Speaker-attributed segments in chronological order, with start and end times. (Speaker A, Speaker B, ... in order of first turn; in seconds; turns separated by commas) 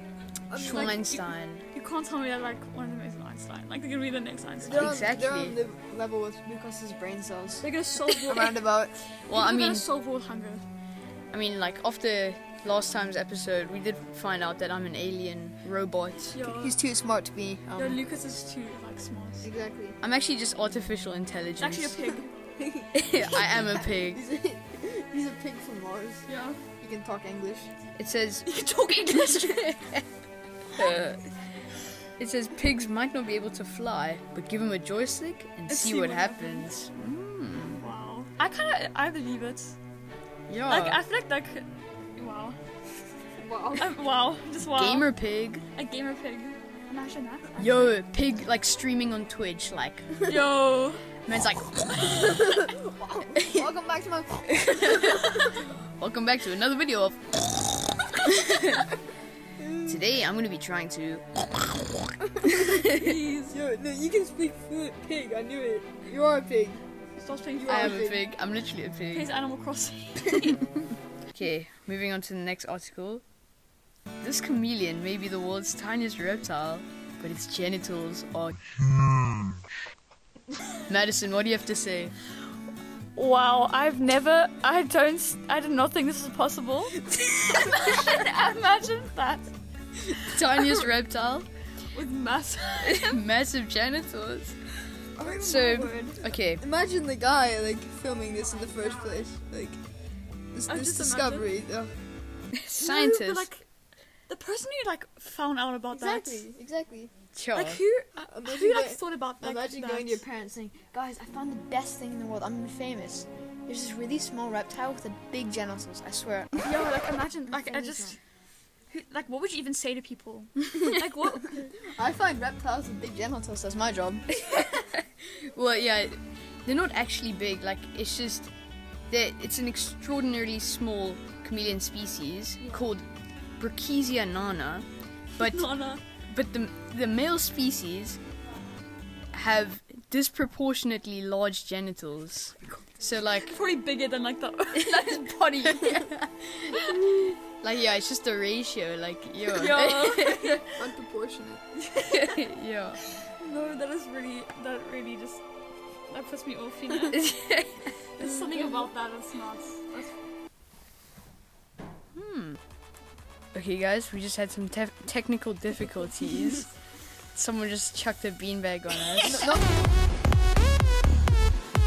Speaker A: 0.5-1.1, Speaker B: 0.6-1.6, Speaker C: 0.6-4.9, Speaker A: 4.6-8.9, Speaker B: 4.7-5.6, Speaker C: 7.6-8.7, Speaker B: 9.3-9.8, Speaker C: 9.3-10.6, Speaker B: 11.3-16.4, Speaker C: 16.3-16.8, Speaker A: 16.4-18.0, Speaker C: 17.7-19.5, Speaker A: 19.4-20.0, Speaker B: 20.0-22.0, Speaker C: 21.6-22.3, Speaker A: 22.6-26.3, Speaker B: 22.9-24.2, Speaker C: 26.3-26.6, Speaker A: 26.8-27.7, Speaker B: 27.9-28.5, Speaker C: 28.4-29.8, Speaker B: 29.2-30.0, Speaker B: 30.7-31.2, Speaker B: 32.2-37.8, Speaker C: 35.7-36.7, Speaker C: 37.8-39.8, Speaker B: 40.5-41.0, Speaker C: 40.7-42.6, Speaker A: 43.4-43.9, Speaker C: 43.7-45.1, Speaker B: 44.6-45.6, Speaker C: 45.7-47.9, Speaker B: 47.6-50.1, Speaker C: 50.2-51.0, Speaker B: 51.2-52.6, Speaker A: 52.2-55.2, Speaker B: 53.4-53.6, Speaker B: 54.5-57.4, Speaker B: 58.1-58.9, Speaker A: 59.6-60.0, Speaker B: 59.9-61.2, Speaker A: 62.2-66.8, Speaker B: 62.7-63.0, Speaker C: 62.9-63.6, Speaker C: 67.2-68.1, Speaker A: 67.6-68.2, Speaker B: 67.7-69.3, Speaker C: 69.1-70.6, Speaker B: 71.3-73.2, Speaker B: 74.2-78.6, Speaker B: 80.9-82.1, Speaker C: 83.2-89.5, Speaker B: 90.1-91.5, Speaker C: 90.1-90.8, Speaker C: 91.9-93.2, Speaker B: 92.8-94.5, Speaker A: 95.2-99.8, Speaker C: 95.2-96.2, Speaker B: 95.4-96.6, Speaker A: 100.5-101.9, Speaker C: 100.7-101.5, Speaker B: 102.5-103.5, Speaker C: 102.8-103.6, Speaker C: 104.3-106.5, Speaker A: 105.9-107.1, Speaker B: 107.3-107.8, Speaker C: 107.5-110.2, Speaker A: 108.2-116.9, Speaker C: 116.6-118.2, Speaker A: 117.5-118.2, Speaker C: 118.9-121.7, Speaker A: 121.8-124.2, Speaker B: 124.5-128.5, Speaker B: 129.1-133.1, Speaker B: 133.6-138.2, Speaker C: 135.4-136.0, Speaker B: 139.3-143.6, Speaker C: 143.5-146.1, Speaker B: 144.7-150.6, Speaker C: 149.5-150.7, Speaker A: 150.7-151.6, Speaker C: 151.8-152.2, Speaker B: 152.0-153.0, Speaker C: 153.2-155.4, Speaker C: 156.1-157.2, Speaker B: 157.1-158.2, Speaker C: 158.2-160.1, Speaker B: 162.1-162.6, Speaker B: 163.5-166.7, Speaker B: 167.3-169.4, Speaker A: 169.2-169.7